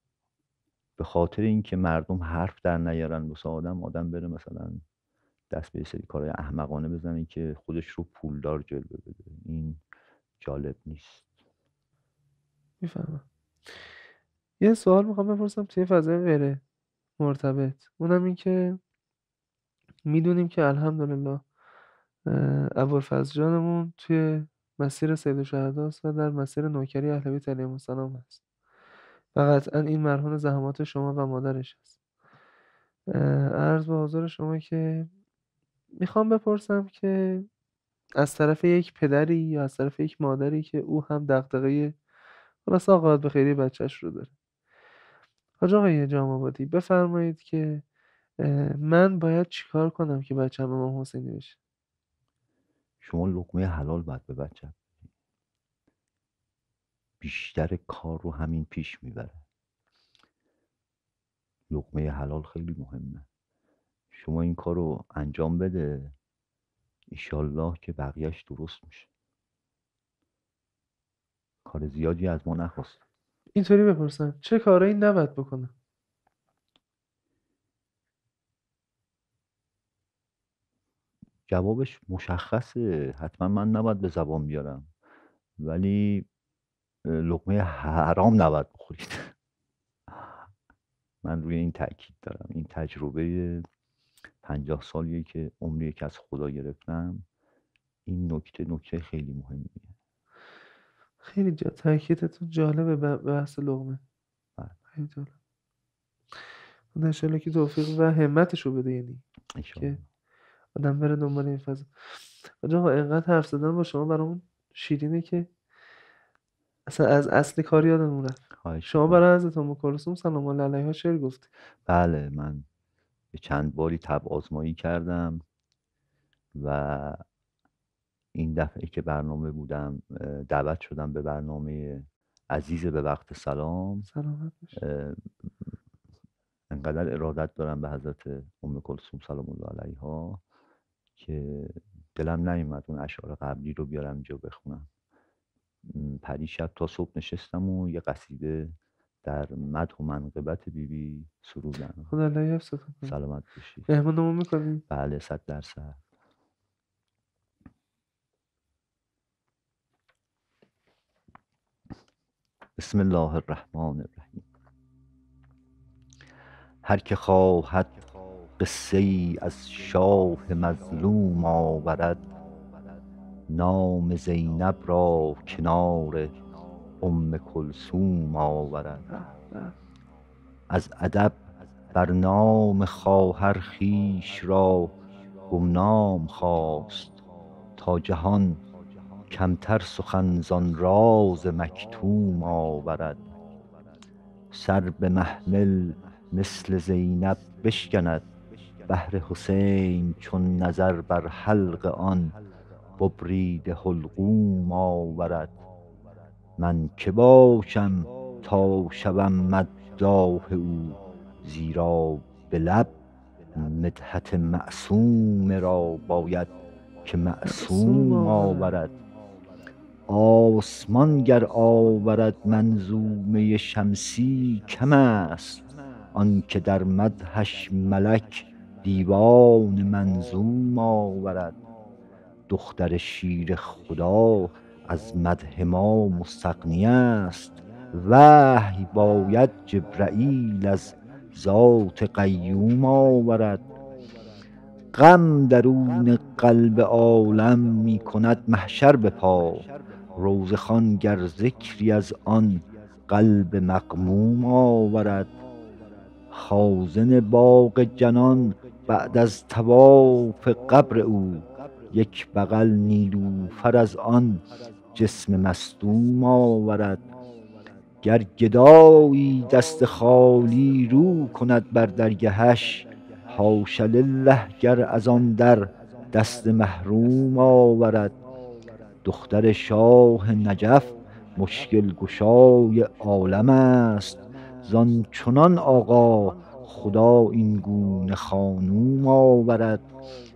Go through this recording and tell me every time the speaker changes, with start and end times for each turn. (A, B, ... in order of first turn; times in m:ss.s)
0:01.0-0:04.8 A
0:05.5-0:09.8 A
0:10.4-0:11.3 A
0:12.8-0:13.2 B
0:14.6-0:16.6 B
0:17.2-0:18.8 B
0:20.1-0:21.4 B
0:22.3-0:28.4 B
0:29.3-0:31.9 B
0:33.1-0:35.1 B
0:36.0-0:37.5 B
0:38.2-0:42.0 B
0:42.6-0:44.3 B
0:45.6-0:47.8 B
0:48.4-0:51.6 B
0:53.0-0:54.9 A
0:57.2-0:59.4 A
1:01.7-1:03.2 A
1:04.1-1:06.1 A
1:07.1-1:09.1 A
1:11.6-1:13.0 A
1:13.6-1:15.7 B
1:21.5-1:24.9 A
1:25.6-1:26.3 A
1:27.0-1:29.3 A
1:30.1-1:30.4 A
1:31.2-1:33.6 A
1:34.4-1:37.2 A
1:38.0-1:39.9 A
1:41.2-1:44.0 B
1:45.0-1:45.3 B
1:46.9-1:49.2 B
1:49.6-1:50.0 A
1:50.8-1:55.5 B
1:56.9-2:01.5 B
1:58.6-1:59.2 A
2:01.9-2:02.6 A
2:03.3-2:05.4 A
2:06.6-2:07.2 A
2:08.3-2:14.1 A
2:14.1-2:14.8 B
2:14.8-2:15.2 A
2:16.7-2:20.4 A
2:21.2-2:24.9 A
2:25.8-2:32.1 A
2:32.1-2:33.2 B
2:33.0-2:33.9 A
2:33.9-2:34.8 B
2:34.9-2:36.0 A
2:42.8-2:44.4 A
2:46.8-2:48.0 A
2:48.6-2:52.3 A
2:53.5-2:56.4 A
2:57.0-2:59.1 A
2:59.1-2:59.7 B
3:00.7-3:01.4 A
3:01.9-3:04.9 A
3:05.5-3:07.2 A
3:07.8-3:08.6 A
3:09.3-3:13.3 A
3:14.5-3:18.3 A
3:18.9-3:22.4 A
3:23.0-3:25.6 A
3:26.6-3:32.9 A
3:33.5-3:36.5 A
3:37.0-3:38.9 A
3:37.4-3:38.7 B
3:40.1-3:51.6 A
3:52.5-4:03.6 A
4:04.9-4:15.3 A
4:16.3-4:27.0 A
4:28.0-4:38.1 A
4:39.0-4:49.8 A